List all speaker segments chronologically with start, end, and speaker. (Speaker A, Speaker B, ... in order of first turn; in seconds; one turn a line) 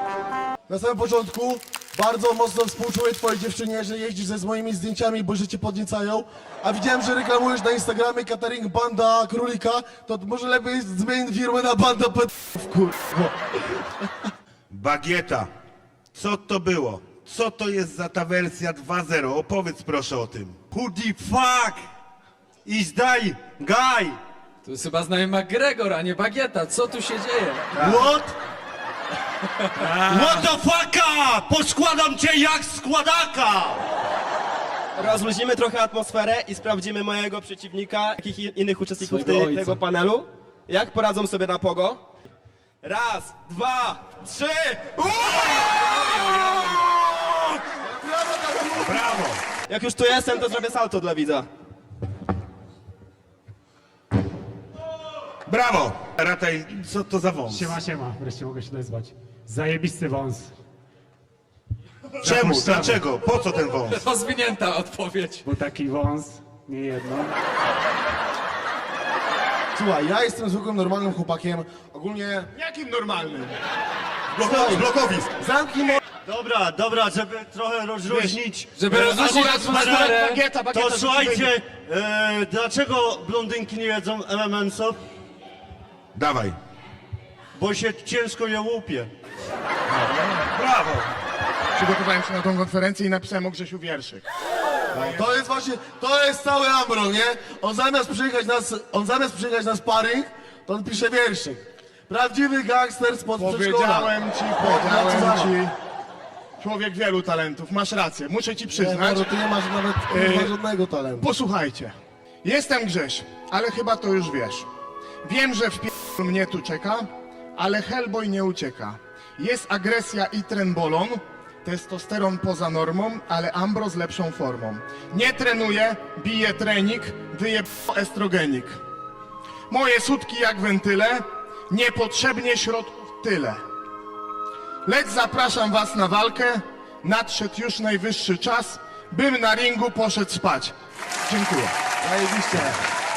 Speaker A: 0.7-13.7
Speaker B: 14.7-15.5
Speaker B: 16.1-20.6
Speaker C: 20.7-21.8
Speaker C: 22.6-24.2
Speaker D: 24.6-27.7
Speaker A: 27.8-28.3
Speaker B: 27.8-28.0
Speaker B: 29.8-30.5
Speaker C: 30.1-33.9
Speaker E: 35.0-42.0
Speaker D: 39.0-39.8
Speaker E: 42.8-45.0
Speaker A: 47.7-49.2
Speaker B: 48.8-49.4
Speaker E: 49.7-51.5
Speaker B: 55.5-57.7
Speaker F: 57.5-60.5
Speaker F: 62.2-63.0
Speaker B: 62.2-64.0
Speaker D: 63.9-65.5
Speaker F: 65.4-67.3
Speaker A: 69.7-72.5
Speaker G: 72.5-73.6
Speaker C: 74.4-75.0
Speaker A: 74.4-76.0
Speaker B: 74.6-75.1
Speaker C: 76.2-78.7
Speaker G: 78.0-81.5
Speaker D: 78.8-80.4
Speaker C: 79.6-80.2
Speaker C: 80.7-85.0
Speaker B: 86.1-86.6
Speaker C: 87.5-89.1
Speaker B: 90.0-91.1
Speaker G: 91.7-94.2
Speaker G: 94.9-95.2
Speaker A: 94.9-105.5
Speaker G: 103.4-105.7
Speaker G: 106.6-109.2
Speaker A: 108.7-111.3
Speaker G: 110.1-110.5
Speaker G: 111.2-114.7
Speaker G: 115.2-128.8
Speaker G: 129.7-133.6
Speaker G: 134.8-140.7
Speaker G: 141.2-141.7
Speaker A: 142.0-142.8